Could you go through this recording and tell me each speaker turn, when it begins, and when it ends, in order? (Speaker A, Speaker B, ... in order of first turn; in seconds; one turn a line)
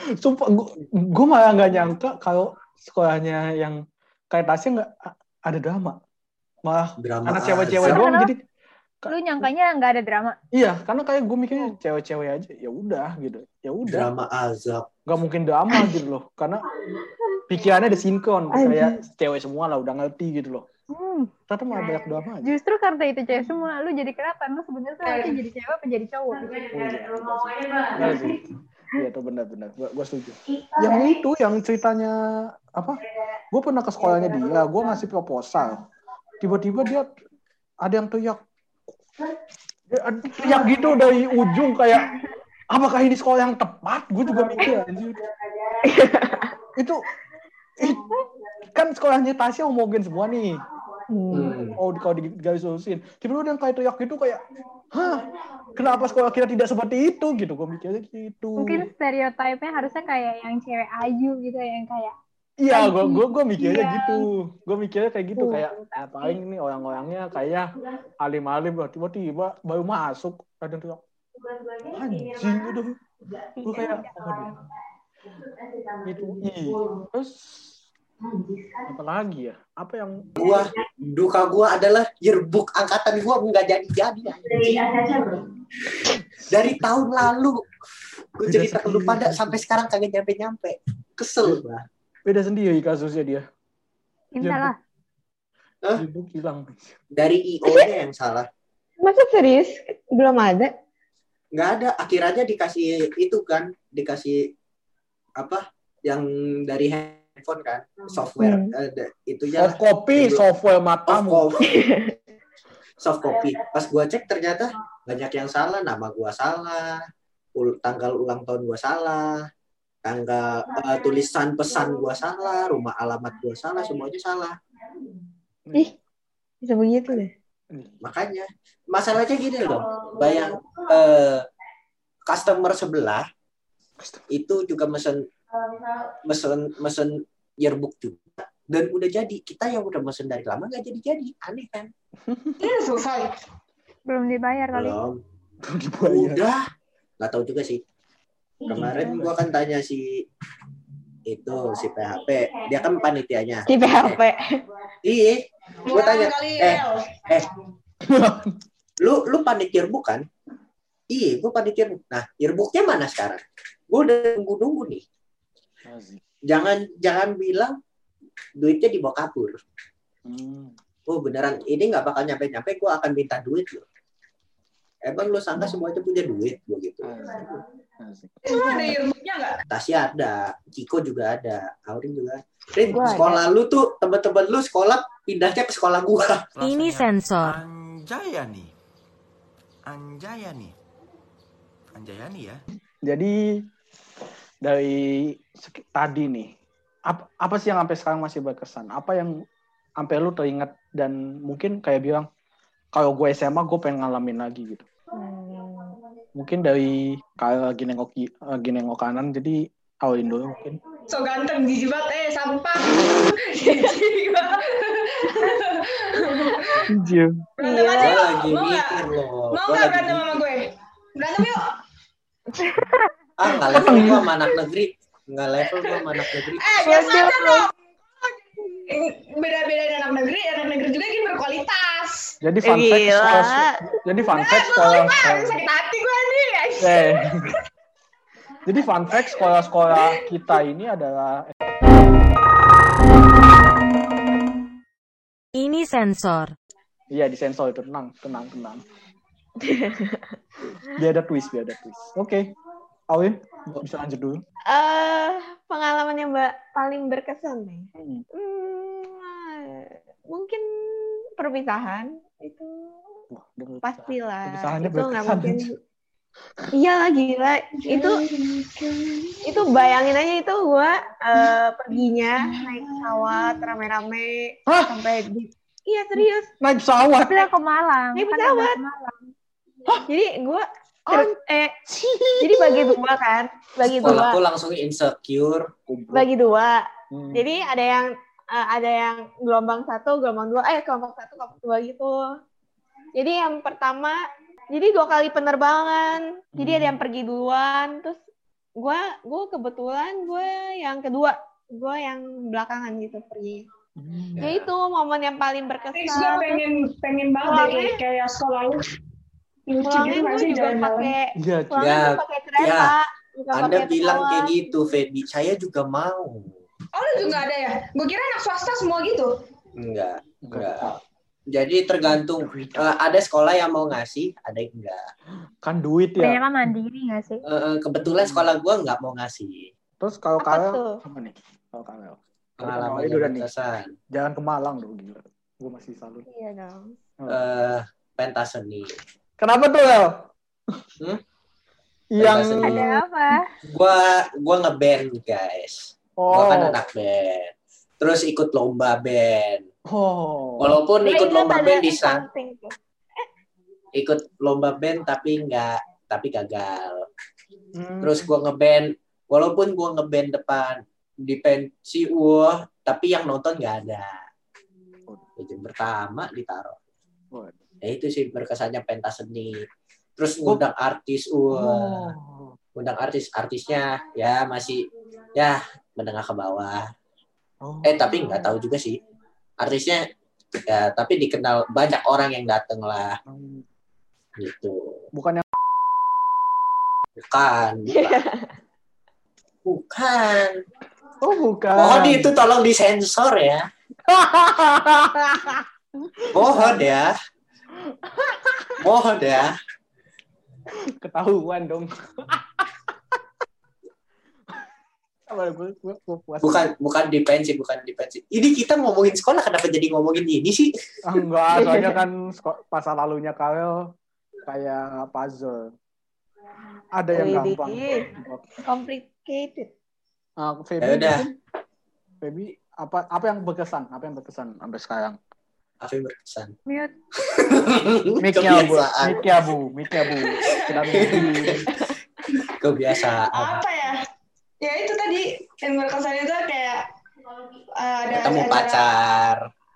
Speaker A: 0.1-3.8
Speaker A: 4.3-6.0
Speaker A: 6.7-8.4
Speaker B: 7.0-8.0
Speaker C: 7.8-8.3
Speaker C: 9.1-10.3
Speaker A: 10.5-14.1
Speaker B: 13.8-14.9
Speaker A: 15.1-16.6
Speaker D: 16.8-17.4
Speaker A: 17.5-20.6
Speaker D: 18.5-19.0
Speaker C: 20.9-21.3
Speaker A: 21.5-22.5
Speaker C: 22.4-26.7
Speaker E: 25.1-25.3
Speaker A: 26.7-28.4
Speaker A: 28.9-32.2
Speaker D: 30.5-31.1
Speaker A: 32.7-35.8
Speaker A: 36.4-37.1
Speaker A: 37.8-38.4
Speaker A: 39.9-42.1
Speaker A: 42.7-45.2
Speaker D: 45.8-46.5
Speaker A: 46.8-47.0
Speaker A: 47.8-48.0
Speaker A: 48.7-50.6
Speaker D: 51.1-51.6
Speaker B: 51.3-51.8
Speaker A: 51.7-58.9
Speaker C: 58.6-62.1
Speaker A: 62.6-71.0
Speaker C: 62.7-64.2
Speaker C: 65.4-66.4
Speaker A: 71.9-73.0
Speaker A: 73.5-74.5
Speaker C: 73.7-74.4
Speaker A: 76.0-77.7
Speaker A: 78.9-80.3
Speaker B: 80.4-85.4
Speaker B: 85.9-87.6
Speaker A: 86.2-86.6
Speaker B: 88.4-91.8
Speaker A: 88.4-89.6
Speaker A: 92.2-93.4
Speaker C: 94.3-94.8
Speaker A: 94.4-94.7
Speaker A: 96.0-97.0
Speaker B: 97.1-98.5
Speaker D: 99.0-100.7
Speaker B: 101.5-104.5
Speaker B: 105.4-110.4
Speaker D: 108.4-108.7
Speaker A: 109.5-111.5
Speaker B: 111.1-111.8
Speaker D: 111.6-112.1
Speaker B: 113.0-117.0
Speaker B: 117.5-119.5
Speaker B: 120.0-124.6
Speaker A: 125.7-125.9
Speaker D: 126.6-127.3
Speaker A: 127.7-128.0
Speaker B: 128.0-131.4
Speaker B: 132.3-133.3
Speaker A: 134.0-134.2
Speaker B: 134.3-135.2
Speaker B: 136.2-141.9
Speaker A: 142.2-142.6
Speaker E: 142.6-143.3
Speaker C: 144.1-145.0
Speaker B: 144.7-145.2
Speaker A: 145.6-146.4
Speaker B: 146.1-146.7
Speaker B: 147.2-147.8
Speaker B: 148.6-150.2
Speaker A: 148.7-149.4
Speaker B: 151.2-154.2
Speaker D: 153.7-154.4
Speaker B: 155.0-157.5
Speaker E: 155.8-157.2
Speaker A: 158.0-158.6
Speaker B: 159.0-160.2
Speaker B: 161.1-165.0
Speaker A: 165.8-166.2
Speaker B: 166.4-167.8
Speaker B: 168.6-169.6
Speaker A: 170.3-170.7
Speaker B: 171.1-173.8
Speaker B: 175.0-177.6
Speaker A: 177.0-178.4
Speaker E: 178.4-179.6
Speaker D: 178.5-178.9
Speaker B: 179.7-186.5
Speaker D: 182.8-183.4
Speaker F: 186.6-188.7
Speaker G: 186.6-187.6
Speaker F: 189.8-190.7
Speaker F: 191.9-192.6
Speaker A: 193.0-193.4
Speaker A: 194.6-196.5
Speaker A: 197.1-199.3
Speaker A: 200.0-202.3
Speaker A: 202.9-204.8
Speaker D: 205.1-205.9
Speaker A: 206.4-210.8
Speaker E: 211.1-216.8
Speaker D: 213.6-214.0
Speaker D: 216.2-216.5
Speaker A: 216.9-217.4
Speaker E: 217.6-221.8
Speaker D: 217.6-218.2
Speaker B: 218.0-220.4
Speaker D: 222.5-222.9
Speaker B: 223.4-226.6
Speaker E: 223.7-224.2
Speaker A: 223.8-224.2
Speaker E: 226.5-232.3
Speaker C: 226.8-227.5
Speaker D: 227.1-227.4
Speaker A: 232.4-235.6
Speaker D: 232.6-233.8
Speaker E: 234.2-237.6
Speaker A: 236.8-237.5
Speaker A: 238.7-241.5
Speaker E: 239.1-240.3
Speaker G: 245.5-246.5
Speaker A: 247.1-248.8
Speaker D: 249.6-250.4
Speaker A: 250.8-252.5
Speaker A: 253.1-254.4
Speaker D: 254.7-263.2
Speaker A: 258.0-258.2
Speaker A: 263.3-265.7
Speaker D: 263.8-265.7
Speaker D: 266.7-268.2
Speaker E: 267.8-269.8
Speaker D: 269.4-276.5
Speaker E: 272.5-273.7
Speaker A: 274.7-275.0
Speaker A: 276.6-277.4
Speaker C: 277.3-279.3
Speaker D: 278.1-278.8
Speaker D: 280.1-281.7
Speaker A: 281.9-283.0
Speaker D: 282.4-284.4
Speaker B: 283.9-285.7
Speaker A: 285.9-286.3
Speaker D: 286.1-292.2
Speaker A: 287.1-287.4
Speaker D: 293.1-294.2
Speaker D: 294.7-298.2
Speaker A: 296.6-297.0
Speaker D: 298.8-303.6
Speaker A: 304.0-304.5
Speaker B: 304.3-304.7
Speaker D: 304.4-306.6
Speaker E: 305.9-308.8
Speaker D: 307.4-308.0
Speaker E: 309.7-311.1
Speaker D: 309.8-314.5
Speaker A: 311.4-311.9
Speaker B: 311.8-312.9
Speaker B: 313.5-316.6
Speaker E: 316.9-319.3
Speaker B: 319.8-321.0
Speaker A: 320.5-321.0
Speaker B: 321.5-325.0
Speaker A: 322.1-323.0
Speaker A: 325.6-326.4
Speaker C: 326.2-327.4
Speaker B: 327.4-329.7
Speaker A: 328.0-328.5
Speaker A: 330.0-333.5
Speaker D: 330.4-331.0
Speaker B: 332.6-333.9
Speaker A: 334.1-336.2
Speaker D: 336.3-336.9
Speaker B: 337.3-339.0
Speaker A: 339.4-340.8
Speaker A: 342.1-342.9
Speaker B: 342.2-342.8
Speaker C: 342.6-343.4
Speaker B: 343.7-349.6
Speaker A: 346.2-346.8
Speaker A: 349.9-350.8
Speaker B: 350.6-352.2
Speaker D: 351.0-353.3
Speaker B: 353.9-357.1
Speaker A: 357.7-358.3
Speaker B: 358.0-364.2
Speaker B: 365.4-366.8
Speaker B: 367.8-369.6
Speaker B: 370.2-372.1
Speaker A: 371.5-372.6
Speaker B: 372.8-376.9
Speaker A: 377.6-378.2
Speaker B: 377.8-379.0
Speaker B: 379.6-380.0
Speaker B: 380.6-383.2
Speaker A: 383.3-383.6
Speaker B: 384.4-385.1
Speaker A: 385.1-385.5
Speaker B: 387.2-388.2
Speaker D: 387.9-388.5
Speaker B: 389.6-390.6
Speaker A: 391.2-392.4
Speaker B: 391.7-393.6
Speaker A: 394.1-396.9
Speaker B: 396.3-397.1
Speaker A: 397.8-398.8
Speaker B: 398.8-399.5
Speaker A: 400.8-403.2
Speaker A: 405.2-406.7
Speaker B: 406.4-410.7
Speaker A: 411.0-413.8
Speaker D: 411.5-412.0
Speaker A: 414.4-415.7
Speaker A: 416.9-418.5
Speaker D: 417.1-419.7
Speaker A: 420.4-421.4
Speaker B: 420.8-421.2
Speaker A: 422.2-425.2
Speaker B: 425.8-426.6
Speaker C: 426.7-426.9
Speaker B: 427.2-429.2
Speaker A: 428.2-431.7
Speaker E: 430.2-430.8
Speaker B: 430.9-431.7
Speaker B: 432.5-433.6
Speaker E: 433.3-434.0
Speaker E: 434.6-436.8
Speaker E: 437.8-438.9
Speaker B: 438.1-439.4